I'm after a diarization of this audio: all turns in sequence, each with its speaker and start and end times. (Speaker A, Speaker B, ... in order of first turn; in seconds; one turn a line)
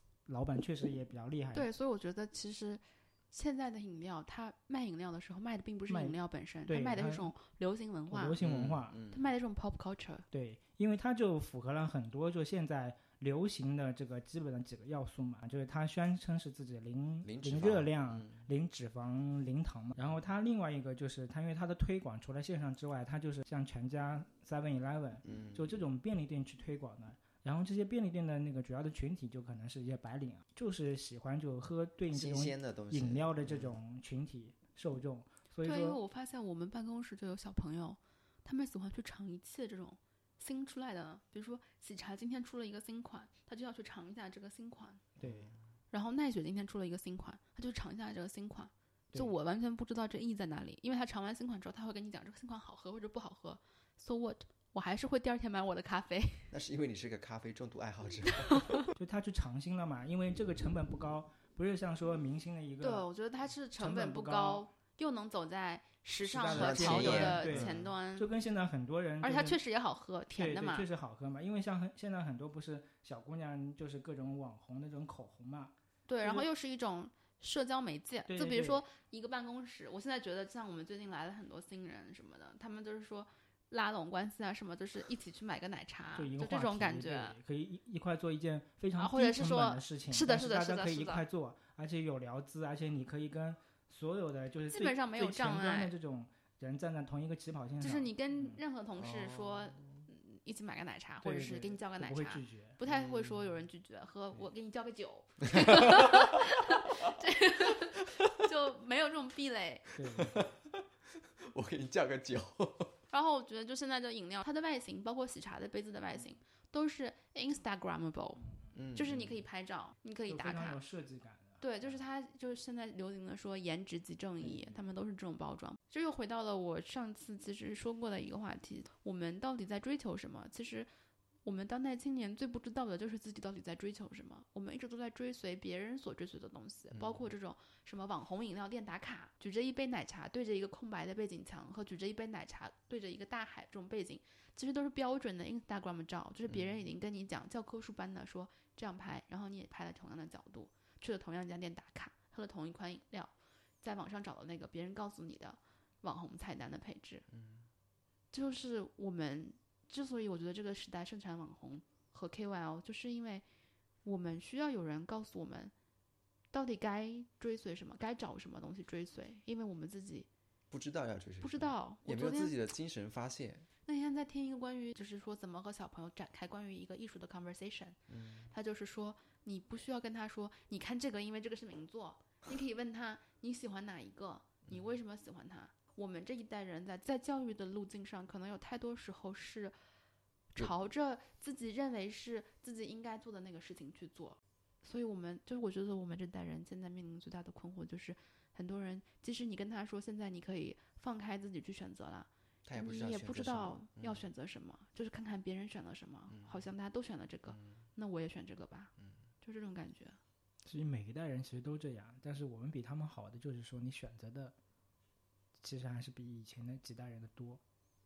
Speaker A: 0.3-1.7
Speaker B: 1.5-8.4
Speaker A: 5.9-6.2
Speaker A: 6.7-7.3
Speaker A: 8.1-9.0
Speaker C: 8.4-9.2
Speaker B: 9.1-10.2
Speaker A: 10.3-36.0
Speaker C: 17.2-18.4
Speaker C: 25.2-25.6
Speaker C: 32.1-33.8
Speaker B: 35.6-45.1
Speaker A: 45.2-45.5
Speaker C: 45.2-45.6
Speaker B: 45.9-56.5
Speaker C: 56.5-58.9
Speaker B: 58.3-58.8
Speaker A: 59.0-63.0
Speaker B: 62.8-68.3
Speaker A: 63.8-64.7
Speaker A: 66.2-69.6
Speaker C: 66.5-67.9
Speaker B: 69.2-70.9
Speaker A: 70.3-76.5
Speaker B: 76.1-87.4
Speaker A: 78.3-78.8
Speaker A: 86.1-98.6
Speaker B: 89.0-91.2
Speaker B: 94.7-95.9
Speaker B: 97.8-109.9
Speaker C: 99.0-100.1
Speaker A: 101.2-102.8
Speaker C: 102.8-103.5
Speaker C: 105.5-106.4
Speaker C: 107.8-108.4
Speaker A: 109.9-110.5
Speaker C: 110.1-113.0
Speaker B: 113.1-120.8
Speaker C: 118.7-119.4
Speaker A: 120.3-121.6
Speaker B: 121.6-130.9
Speaker B: 131.4-153.3
Speaker C: 136.9-137.3
Speaker C: 146.5-146.8
Speaker B: 153.8-157.2
Speaker C: 157.3-157.7
Speaker B: 158.3-163.4
Speaker B: 164.0-165.7
Speaker B: 166.5-170.3
Speaker C: 170.7-173.7
Speaker B: 171.4-172.5
Speaker B: 173.8-178.0
Speaker C: 178.1-178.5
Speaker B: 178.5-189.7
Speaker C: 184.7-184.9
Speaker B: 190.5-210.2
Speaker C: 202.7-204.3
Speaker C: 206.3-206.7
Speaker C: 207.5-207.8
Speaker A: 210.6-214.5
Speaker A: 215.6-217.6